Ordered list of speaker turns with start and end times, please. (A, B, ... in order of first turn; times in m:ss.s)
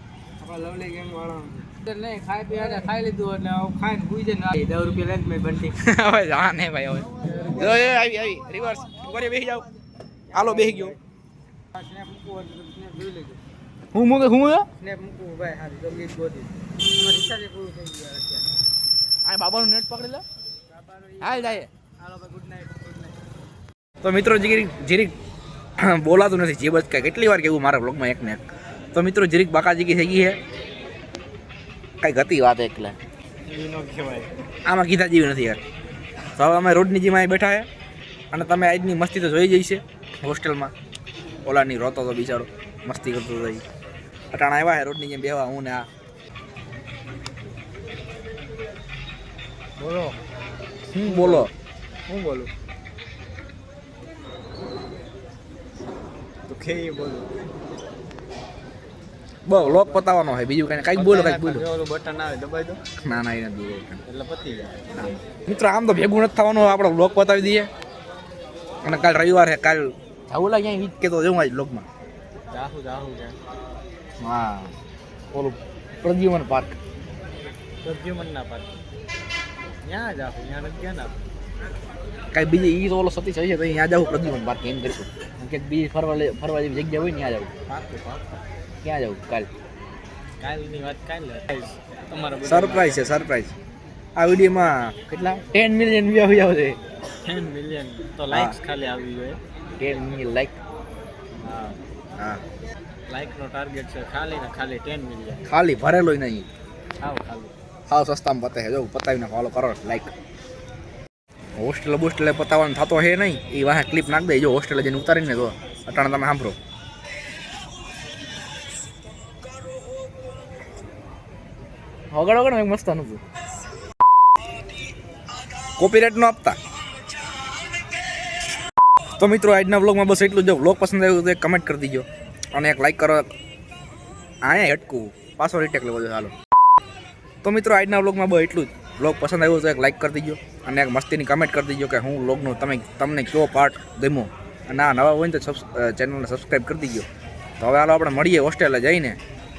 0:00.4-0:05.8 A
0:05.8-0:09.7 B
0:07.3-0:07.8 A
0:10.3-0:11.0 A
0:10.3-0:11.0 B
0:11.7-0:13.4 A
0:13.9-0:14.7 B
0:14.8-0:18.5 A
0:19.2-0:20.2 B
0:20.7-0:23.2 A
0:21.2-0:21.7 B
0:24.0-0:25.1 B
0:25.8-0:30.4 B
0:32.0-0:33.0 B
0:33.5-0:34.3 C
0:34.6-0:35.6 B
0:36.4-0:37.7 B
0:38.3-0:40.7 B
0:41.4-0:43.6 B
0:44.3-0:45.9 B
0:49.8-0:50.2 C
0:50.9-0:51.5 B
0:51.1-0:51.4 C
0:52.1-0:52.5 C
0:56.5-0:57.4 C
0:59.4-1:01.7 B
0:59.6-1:00.0 C
1:01.0-1:02.8 C
1:03.0-1:04.0 B
1:04.0-1:04.8 C
1:04.9-1:07.7 B
1:08.8-1:11.8 B
1:12.5-1:13.4 C
1:14.2-1:14.7 B
1:15.3-1:16.8 B
1:17.8-1:18.7 C
1:19.8-1:21.2 C
1:22.3-1:27.5 B
1:27.7-1:28.3 C
1:28.8-1:29.5 B
1:30.4-1:33.0 C
1:32.4-1:33.5 B
1:34.2-1:36.8 B
1:37.2-1:39.4 C
1:38.3-1:38.6 B
1:39.8-1:40.6 B
1:41.4-1:41.8 C
1:43.1-1:45.4 C
1:45.4-1:46.5 B
1:47.0-1:47.5 C
1:47.9-1:50.1 B
1:51.6-1:56.6 B
2:02.1-2:03.2 B
2:05.8-2:06.6 B
2:09.2-2:13.2 B
2:14.4-2:16.3 B
2:17.4-2:27.1 B
2:27.6-2:29.2 B